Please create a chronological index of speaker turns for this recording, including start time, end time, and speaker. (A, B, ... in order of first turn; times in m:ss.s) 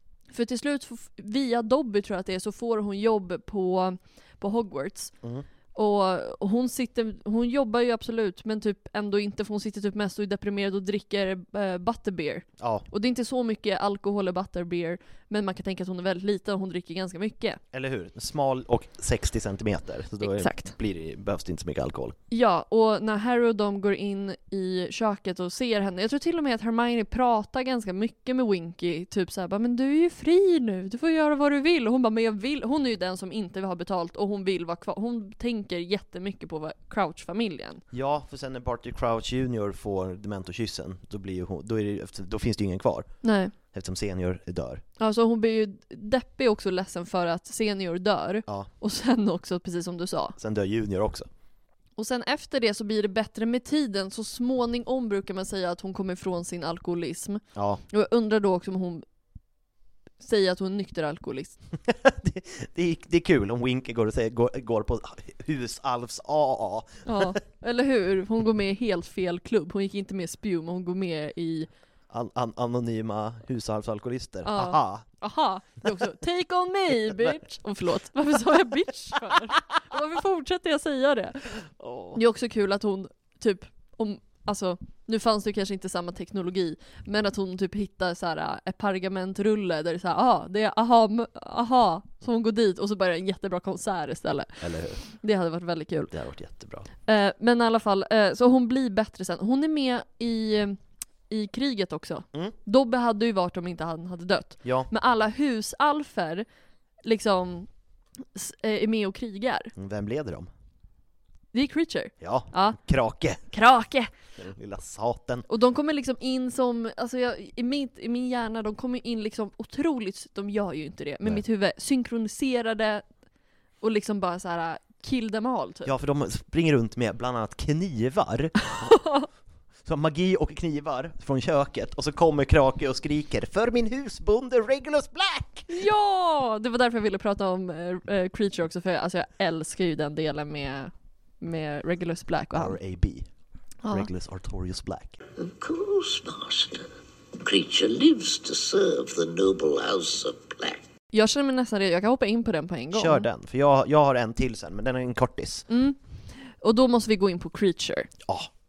0:00.3-0:05.1 A
0:05.7-0:17.6 A
0:12.6-0:12.9 B
0:17.7-0:22.2 B
0:20.2-0:20.7 A
0:22.3-0:37.8 A
0:37.9-0:43.1 B
0:43.2-0:43.5 A
0:43.7-0:44.8 B
0:45.0-0:50.4 A
0:50.4-0:51.3 B
0:52.0-0:59.0 A
0:57.6-0:57.8 B
1:00.2-1:01.6 A
1:01.9-1:07.4 B
1:07.1-1:11.7 A
1:12.1-1:15.1 B
1:14.4-1:21.4 A
1:21.8-1:22.2 B
1:22.1-1:36.1 A
1:34.6-1:35.0 B
1:36.1-1:36.9 B
1:37.1-1:40.8 A
1:41.3-1:46.4 A
1:44.6-1:44.9 B
1:47.0-1:47.7 A
1:48.4-1:49.7 A
1:49.7-1:50.5 B
1:51.5-1:52.8 A
1:52.2-1:53.4 B
1:53.5-1:54.1 A
1:54.4-1:55.4 B
1:55.5-2:03.0 A
2:03.8-2:05.9 A
2:05.9-2:08.9 B
2:08.7-2:09.3 A
2:09.8-2:15.7 B
2:15.7-2:22.8 A
2:22.6-2:23.3 B
2:23.9-2:25.2 B
2:25.4-2:26.9 C
2:27.4-2:30.8 C
2:31.1-2:33.3 A
2:32.9-2:35.6 B
2:35.7-2:36.0 A
2:36.6-2:38.1 A